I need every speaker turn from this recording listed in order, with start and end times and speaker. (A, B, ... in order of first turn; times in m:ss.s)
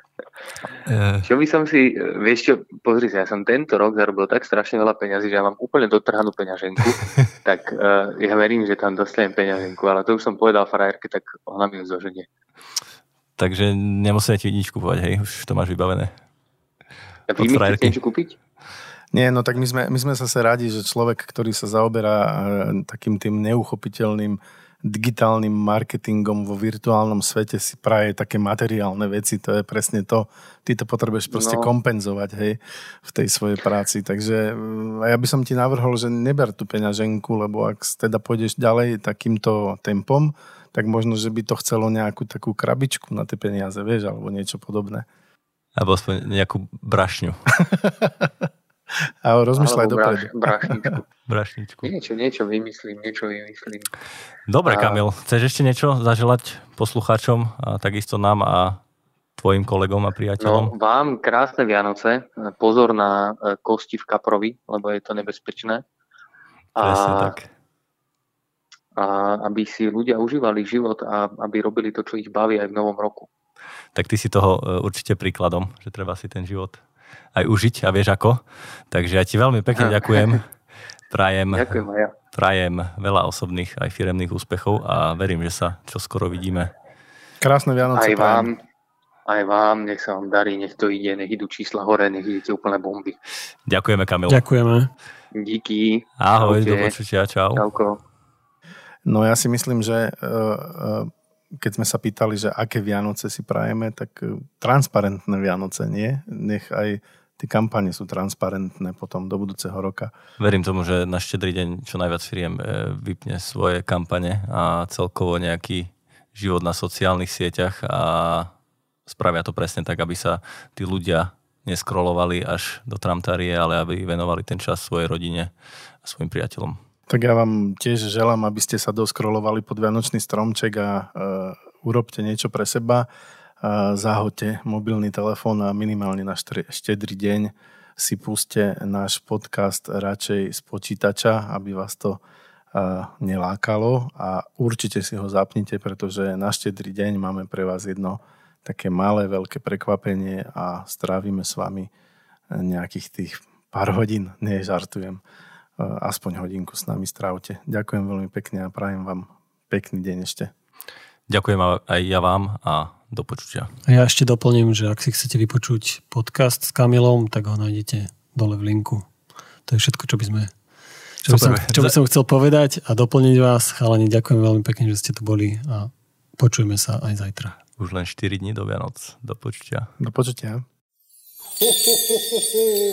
0:00.8-0:01.2 A
0:01.2-0:12.2 B
0:13.4-0:16.1 A
0:17.3-0:18.4 B
0:17.4-0:18.0 A
0:19.1-0:45.0 C
0:31.3-0:31.7 B
0:45.8-0:47.4 A
0:47.7-0:48.3 C
0:49.2-0:50.9 C
0:49.6-0:51.0 B
0:51.3-0:51.9 A
0:51.8-0:53.9 B
0:54.5-0:58.8 A
0:54.6-0:55.0 B
0:59.4-1:00.7 A
1:00.4-1:05.8 B
1:06.8-1:07.4 B
1:06.8-1:07.5 A
1:09.0-1:13.3 B
1:13.9-1:16.8 A
1:17.3-1:20.4 A
1:19.8-1:20.3 B
1:21.1-1:21.8 A
1:21.5-1:22.1 B
1:22.3-1:26.7 A
1:27.4-1:28.5 C
1:27.9-1:28.6 B
1:29.2-1:33.2 B
1:33.7-1:34.4 A
1:34.3-1:34.9 D
1:35.3-1:36.9 B
1:36.2-1:37.6 A
1:37.6-1:38.0 B
1:39.1-1:50.1 C
1:50.4-1:58.5 A
1:59.1-2:05.5 A
2:06.0-2:06.8 A
2:07.1-2:13.1 C
2:13.6-2:22.2 C
2:22.7-2:31.9 C
2:32.5-2:35.2 C
2:35.8-2:40.5 C
2:41.3-2:43.7 A
2:43.9-2:49.1 D
2:49.7-2:50.5 D
2:51.2-2:57.6 D
2:51.3-2:51.9 A
2:57.8-2:59.9 A
3:00.0-3:00.6 C